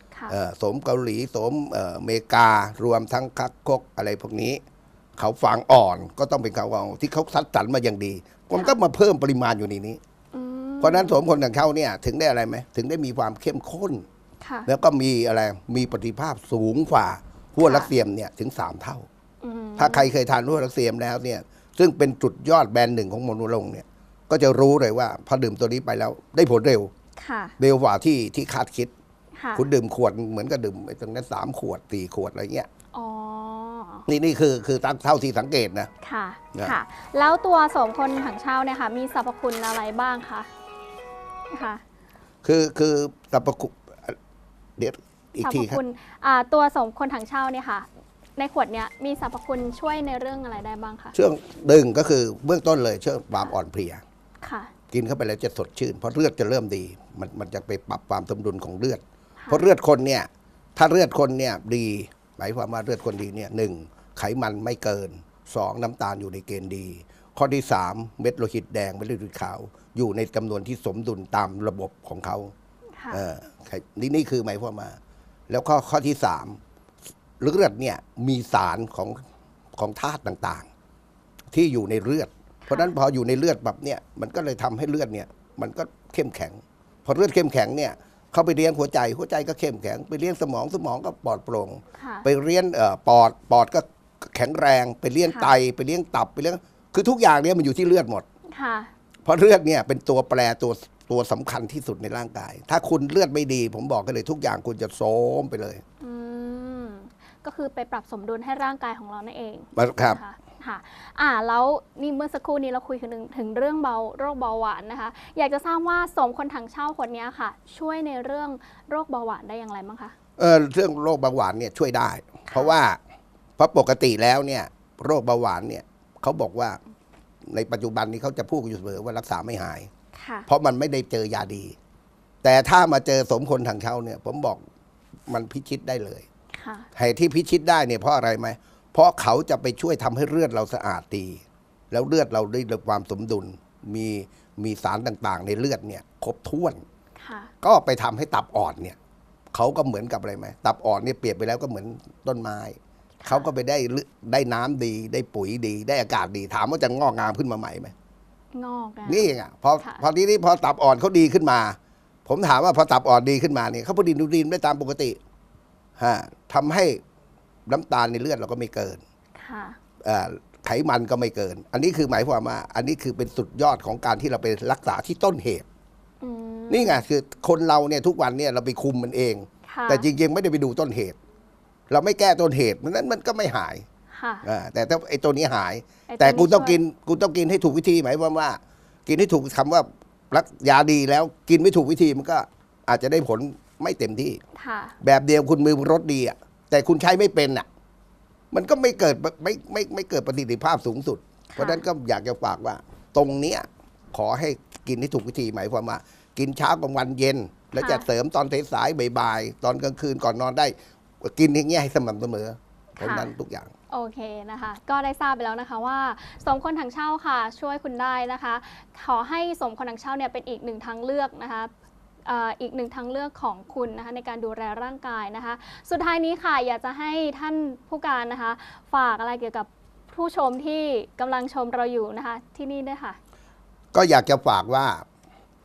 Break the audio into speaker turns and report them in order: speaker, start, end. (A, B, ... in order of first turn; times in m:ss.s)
0:00.3-0:04.6 A
0:05.2-0:10.0 A
0:10.3-0:11.2 B
0:10.8-0:14.0 A
0:14.4-0:14.7 B
0:14.7-0:19.1 A
0:17.6-0:17.9 B
0:19.4-0:20.1 B
0:19.8-0:26.9 A
0:27.2-0:27.5 B
0:27.6-0:28.9 A
0:29.3-0:29.7 B
0:29.5-0:32.7 A
0:32.9-0:34.0 B
0:34.1-0:35.9 A
0:36.0-0:40.5 B
0:41.5-0:41.8 B
0:42.4-0:44.2 A
0:44.8-0:45.8 A
0:45.4-0:51.1 B
0:51.1-0:54.0 A
0:54.4-0:54.7 B
0:54.9-1:12.5 A
0:59.4-0:59.7 B
1:12.9-1:13.2 B
1:13.1-1:15.0 A
1:15.5-1:16.6 A
1:17.4-1:19.2 A
1:19.8-1:20.7 A
1:21.5-1:38.2 A
1:22.7-1:22.9 B
1:32.0-1:32.3 B
1:35.2-1:35.5 B
1:38.5-1:38.9 B
1:39.2-1:45.8 A
1:46.0-2:00.1 B
1:49.7-1:50.2 A
2:00.4-2:03.0 A
2:02.5-2:02.7 B
2:03.6-2:06.8 A
2:07.5-2:09.9 A
2:10.1-2:10.5 B
2:10.5-2:11.8 A
2:12.4-2:14.6 A
2:15.3-2:16.2 A
2:16.5-2:16.9 B
2:16.9-2:26.8 A
2:27.2-2:27.5 B
2:27.6-2:29.0 A
2:29.5-2:37.9 A
2:33.2-2:33.5 B
2:38.5-2:40.0 B
2:39.0-2:45.2 A
2:46.0-2:47.0 A
2:47.7-2:49.0 A
2:49.3-2:49.8 B
2:50.0-2:55.6 A
2:56.2-2:57.0 B
2:56.7-3:01.2 A
2:59.6-3:00.1 B
3:01.9-3:03.8 A
3:04.1-3:04.4 B
3:04.4-3:14.4 A
3:06.1-3:06.8 B
3:14.6-3:15.0 B
3:15.0-3:17.6 A
3:18.5-3:33.7 A
3:21.5-3:21.8 B
3:27.8-3:28.1 B
3:33.0-3:33.3 B
3:33.9-3:41.7 B
3:42.2-3:53.2 B
3:53.9-3:55.0 A